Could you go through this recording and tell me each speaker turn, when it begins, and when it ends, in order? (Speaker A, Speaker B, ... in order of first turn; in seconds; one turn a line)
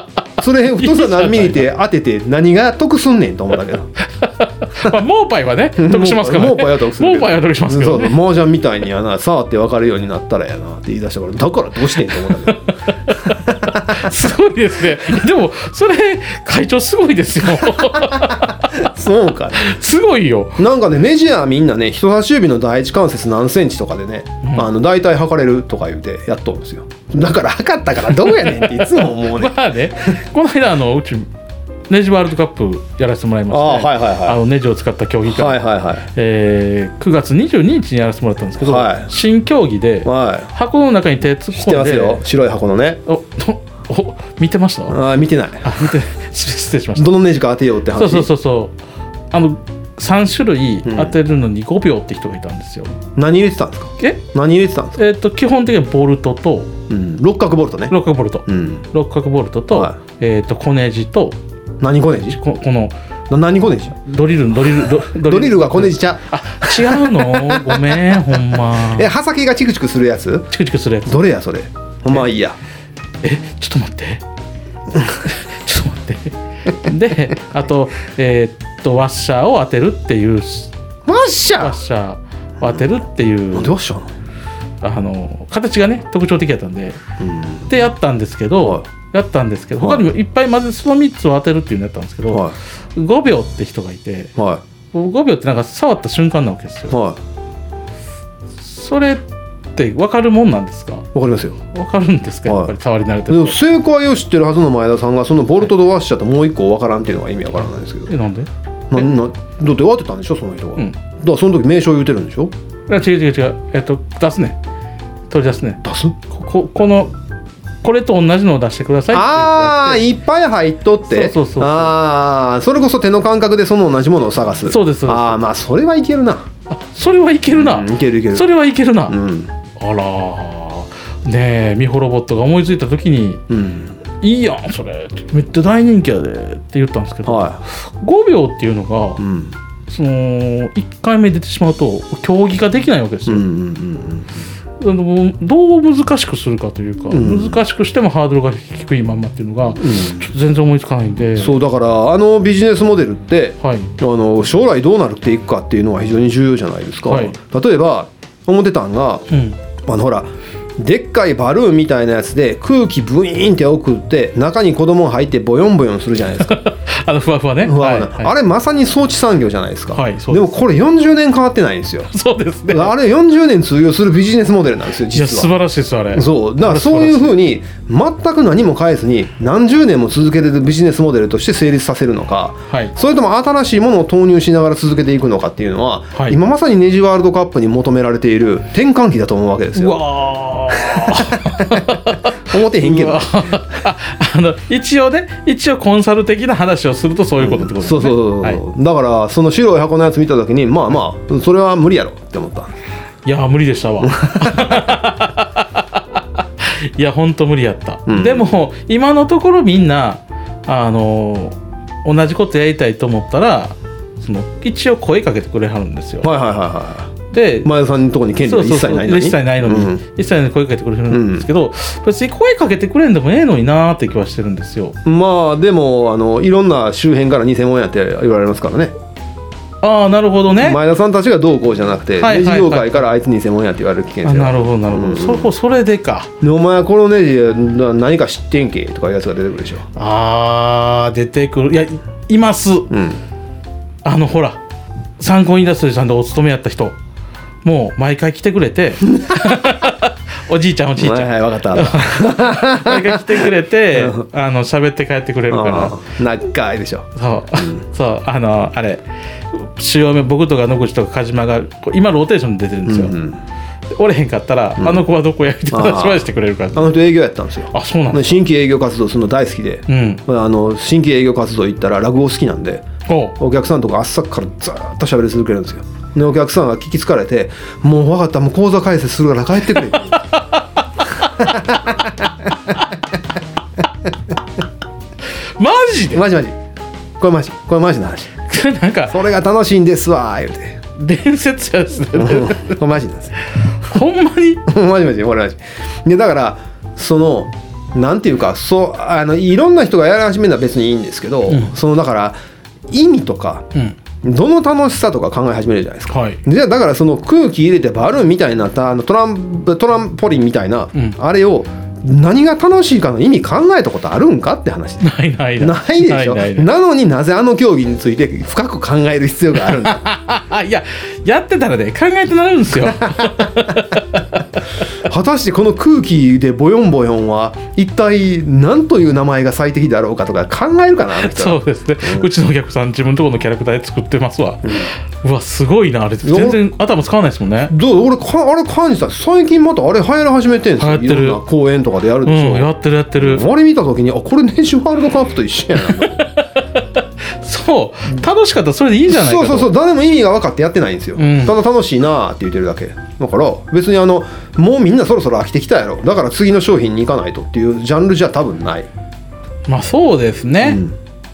Speaker A: 0.4-3.9
Speaker B: 0.8-1.6
Speaker B: 4.2-8.2
Speaker A: 5.8-12.7
Speaker B: 12.4-18.8
Speaker A: 13.2-14.1
Speaker A: 17.7-19.7
Speaker B: 19.6-20.6
Speaker A: 20.6-29.6
Speaker B: 28.1-31.3
Speaker B: 31.9-35.6
Speaker A: 33.5-34.4
Speaker A: 35.2-36.1
Speaker B: 36.1-42.2
Speaker A: 38.6-39.1
Speaker A: 40.0-40.5
Speaker A: 41.5-43.0
Speaker B: 43.0-45.0
Speaker A: 44.9-45.7
Speaker B: 45.6-47.1
Speaker A: 46.9-48.3
Speaker B: 47.9-48.8
Speaker B: 49.3-53.0
Speaker A: 50.8-51.1
Speaker A: 53.1-55.0
Speaker B: 54.9-56.7
Speaker A: 56.9-58.8
Speaker B: 57.9-61.4
Speaker A: 59.7-60.0
Speaker A: 61.8-62.4
Speaker B: 62.3-62.9
Speaker A: 63.3-64.1
Speaker B: 64.0-69.1
Speaker A: 64.9-68.0
Speaker A: 68.8-70.5
Speaker B: 70.5-71.2
Speaker A: 71.0-72.6
Speaker B: 73.2-74.2
Speaker B: 75.2-80.7
Speaker A: 81.0-81.8
Speaker B: 81.6-83.8
Speaker A: 83.5-84.1
Speaker B: 84.8-87.0
Speaker A: 87.2-87.7
Speaker B: 87.7-94.3
Speaker A: 89.8-90.0
Speaker A: 92.3-92.5
Speaker A: 94.4-94.6
Speaker B: 94.9-97.0
Speaker A: 96.9-97.2
Speaker B: 98.6-99.2
Speaker B: 99.7-101.1
Speaker A: 101.1-101.6
Speaker B: 101.7-103.6
Speaker A: 102.5-102.7
Speaker A: 103.3-108.1
Speaker B: 108.1-109.0
Speaker A: 108.9-112.5
Speaker B: 112.9-114.6
Speaker B: 115.3-117.1
Speaker A: 115.8-116.1
Speaker B: 117.8-120.0
Speaker A: 119.1-126.5
Speaker B: 121.1-121.9
Speaker B: 124.7-125.3
Speaker B: 126.7-129.2
Speaker A: 127.5-128.5
Speaker A: 129.1-129.5
Speaker B: 129.8-133.4
Speaker A: 133.5-134.0
Speaker B: 134.2-139.2
Speaker A: 137.2-137.6
Speaker A: 139.2-139.5
Speaker B: 139.9-143.5
Speaker A: 143.3-144.3
Speaker B: 144.8-151.6
Speaker A: 147.1-147.6
Speaker A: 149.8-150.3
Speaker A: 151.4-159.2
Speaker B: 153.6-153.9
Speaker B: 157.1-157.4
Speaker B: 159.3-159.6
Speaker A: 159.8-166.6
Speaker B: 166.4-168.3
Speaker A: 167.6-172.1
Speaker B: 169.9-170.6
Speaker B: 172.1-172.9
Speaker A: 172.7-175.5
Speaker B: 175.1-177.4
Speaker A: 176.1-190.0
Speaker B: 189.8-198.6
Speaker A: 190.7-193.6
Speaker A: 197.4-202.7
Speaker B: 203.2-216.3
Speaker A: 204.0-204.8
Speaker A: 208.1-208.5
Speaker A: 216.2-220.0
Speaker B: 217.3-217.7
Speaker B: 218.4-225.0
Speaker A: 221.1-221.5
Speaker A: 225.0-228.9
Speaker B: 229.8-230.8
Speaker A: 230.6-235.5
Speaker B: 232.2-233.0
Speaker B: 234.2-236.3
Speaker A: 236.4-239.8
Speaker B: 239.9-242.9
Speaker A: 242.9-243.2
Speaker B: 244.0-244.6
Speaker B: 245.2-246.9
Speaker B: 247.6-256.0
Speaker A: 251.0-254.2
Speaker A: 255.5-257.8
Speaker B: 257.1-263.1
Speaker A: 262.9-263.4
Speaker B: 263.9-266.9
Speaker A: 264.8-265.0
Speaker A: 265.7-272.9
Speaker B: 267.7-268.4
Speaker B: 269.9-270.2
Speaker B: 273.1-273.4
Speaker A: 273.4-280.2
Speaker B: 280.1-280.6
Speaker A: 281.4-282.3
Speaker B: 285.6-286.2
Speaker A: 286.1-286.6
Speaker A: 287.2-288.3
Speaker B: 288.5-289.2
Speaker A: 289.1-290.8
Speaker B: 291.0-292.8
Speaker A: 292.1-293.3
Speaker B: 293.8-294.7
Speaker A: 294.7-302.4
Speaker B: 301.5-301.7
Speaker A: 302.9-320.1
Speaker B: 306.1-306.4
Speaker B: 315.0-316.7
Speaker B: 319.7-324.2
Speaker A: 323.1-323.4
Speaker A: 325.0-332.3
Speaker B: 331.2-337.7
Speaker A: 334.6-334.9
Speaker A: 336.2-336.6
Speaker A: 337.7-346.3
Speaker B: 340.8-341.4
Speaker B: 342.2-343.5
Speaker B: 345.9-349.7
Speaker A: 349.1-358.9
Speaker B: 351.1-351.6
Speaker B: 359.7-360.8
Speaker A: 360.6-360.9